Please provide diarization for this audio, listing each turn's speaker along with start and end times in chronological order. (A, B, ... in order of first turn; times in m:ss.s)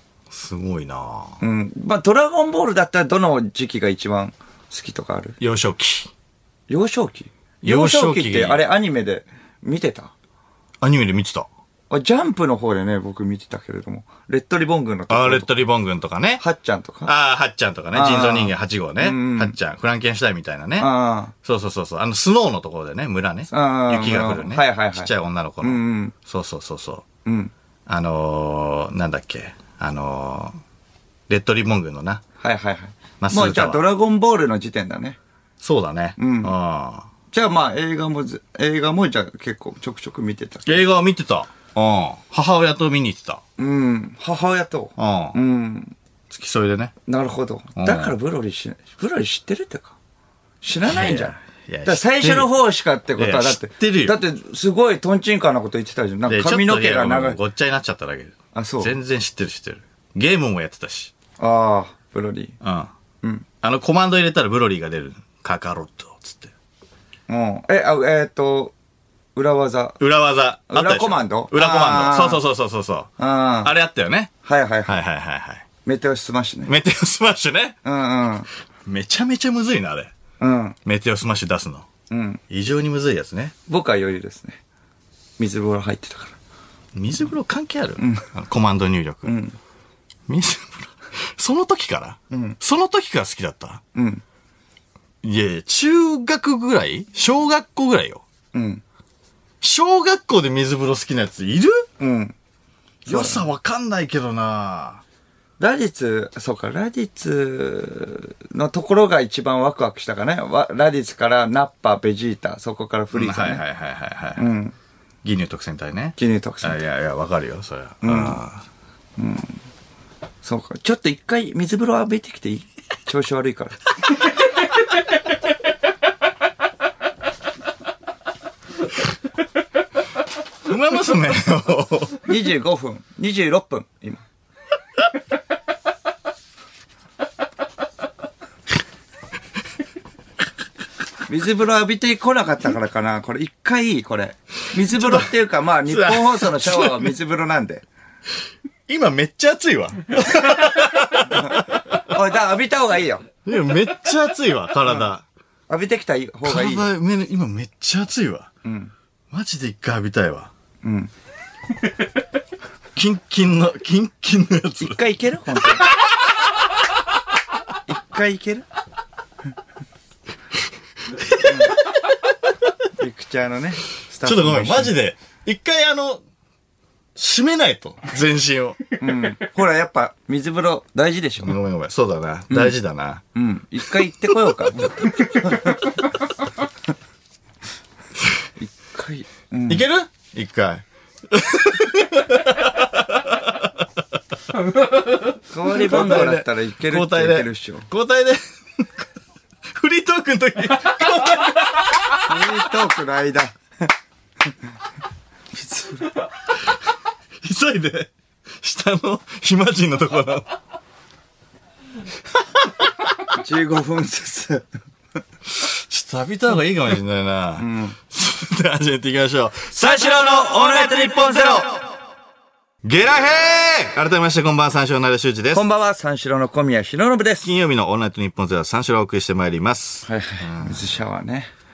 0:00.3-0:01.4 A
0:01.4-0:05.4 B
0:05.4-0:06.1 A
0:06.7-0:10.1 B
0:07.6-0:08.6 A
0:10.8-0:11.5 A
0:11.9-0:15.5 B
0:15.1-0:16.4 A
0:16.4-0:17.1 B
0:17.0-0:20.9 A
0:17.9-0:19.5 B
0:20.8-0:21.3 B
0:21.4-0:27.0 A
0:23.5-0:26.1 B
0:27.2-0:27.5 B
0:27.9-0:30.6 A
0:31.3-0:32.2 A
0:32.4-0:35.2 B
0:33.2-0:33.8 A
0:35.6-0:37.1 A
0:36.2-0:36.5 B
0:37.3-0:40.8 B
0:40.6-0:43.4 A
0:43.6-0:45.9 B
0:45.0-0:45.4 A
0:46.3-0:46.9 A
0:47.1-0:49.9 B
0:47.8-0:48.1 A
0:50.6-0:51.3 B
0:50.8-0:52.5 A
0:51.8-0:57.4 B
0:53.2-0:54.2 A
0:56.3-1:01.1 A
0:58.5-0:58.9 B
1:01.4-1:02.6 B
1:02.6-1:02.9 A
1:03.6-1:06.5 A
1:07.3-1:08.7 B
1:09.3-1:10.0 B
1:10.0-1:14.3 A
1:10.7-1:12.4 B
1:13.2-1:13.7 B
1:14.4-1:15.0 B
1:14.8-1:15.6 A
1:15.8-1:16.7 B
1:16.7-1:17.8 A
1:17.8-1:18.5 B
1:18.8-1:20.1 A
1:20.4-1:20.8 B
1:20.8-1:21.8 A
1:22.1-1:22.4 B
1:22.5-1:23.5 A
1:23.7-1:24.6 B
1:25.4-1:26.4 B
1:26.9-1:29.4 A
1:28.0-1:28.2 B
1:29.3-1:29.6 B
1:30.3-1:33.8 A
1:32.3-1:32.6 B
1:33.9-1:34.2 B
1:35.2-1:38.2 A
1:38.5-1:38.8 B
1:39.6-1:41.9 A
1:42.0-1:42.3 B
1:43.0-1:43.4 B
1:43.0-1:45.0 A
1:45.6-1:53.6 B
1:53.1-1:54.5 A
1:54.4-1:54.8 B
1:55.2-1:58.6 A
1:56.2-1:56.8 B
1:58.0-1:58.4 B
1:59.2-1:59.6 B
2:00.4-2:03.8 B
2:10.6-2:12.2 A
2:12.2-2:14.2 B
2:21.3-2:27.8 B
2:24.8-2:25.3 A
2:25.8-2:27.1 A
2:28.9-2:32.0 A
2:31.3-2:33.2 B
2:33.4-2:35.2 A
2:35.7-2:36.9 B
2:36.4-2:38.5 A
2:38.6-2:38.9 B
2:39.3-2:40.5 A
2:40.8-2:41.1 B
2:43.0-2:45.0 A
2:44.8-2:45.9 B
2:47.9-2:48.6 B
2:51.2-2:51.9 A
2:51.4-2:51.7 B
2:53.0-2:55.0 B
2:54.2-2:56.2 A
2:57.2-2:58.8 A
2:59.0-3:01.5 B
3:01.4-3:03.2 A
3:03.3-3:06.0 B
3:08.6-3:09.8 B
3:09.7-3:13.7 A
3:15.5-3:17.9 B
3:15.7-3:18.8 A
3:19.7-3:22.2 A
3:22.2-3:23.9 B
3:25.5-3:26.2 B
3:27.4-3:30.6 A
3:32.4-3:33.3 A
3:33.3-3:34.7 B
3:35.4-3:41.8 A
3:37.6-3:38.0 B
3:39.7-3:41.8 B
3:42.8-3:45.6 A
3:45.5-3:47.5 B
3:47.4-3:50.9 A
3:50.1-3:51.5 B